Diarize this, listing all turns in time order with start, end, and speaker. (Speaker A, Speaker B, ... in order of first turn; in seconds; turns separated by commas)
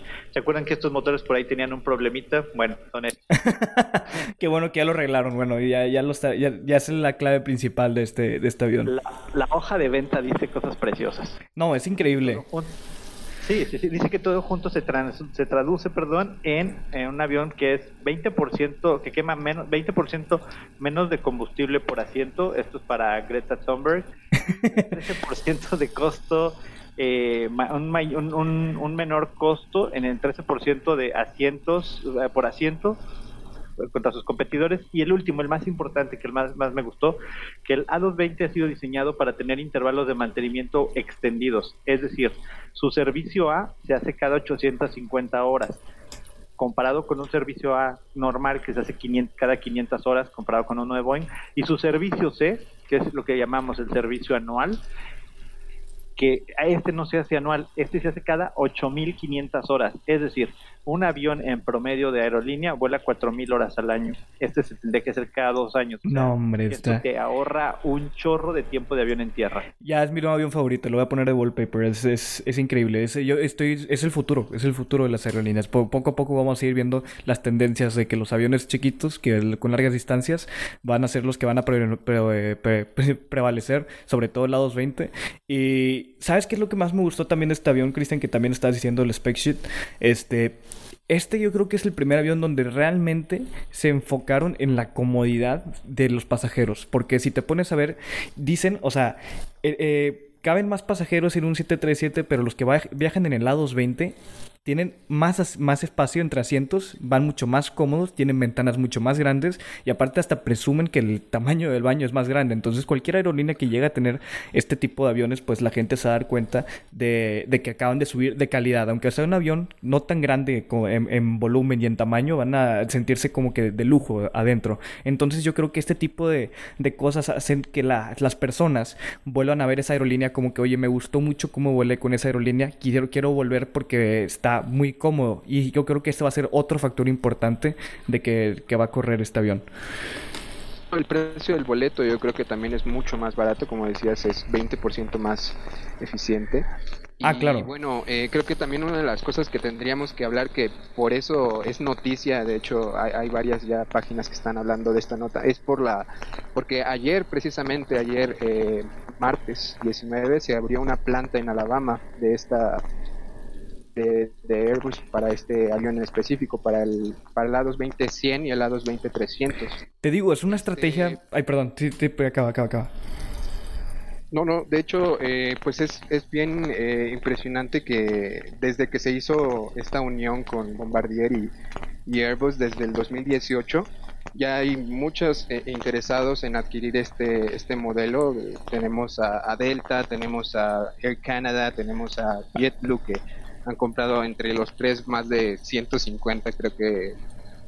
Speaker A: 0.3-3.1, Speaker B: 3.3-8.9, Speaker A: 8.8-11.4, Speaker B: 11.6-12.4, Speaker A: 11.9-12.7, Speaker A: 13.4-24.1, Speaker A: 24.6-33.0, Speaker A: 33.8-45.8, Speaker A: 46.6-54.8, Speaker A: 56.2-69.7, Speaker B: 66.0-67.0, Speaker B: 69.8-90.6, Speaker B: 91.1-139.6, Speaker C: 140.9-146.6, Speaker C: 147.2-162.8, Speaker B: 147.2-147.7, Speaker C: 163.9-169.8, Speaker B: 170.0-172.9, Speaker C: 170.8-171.2, Speaker C: 174.3-181.5, Speaker C: 182.1-197.1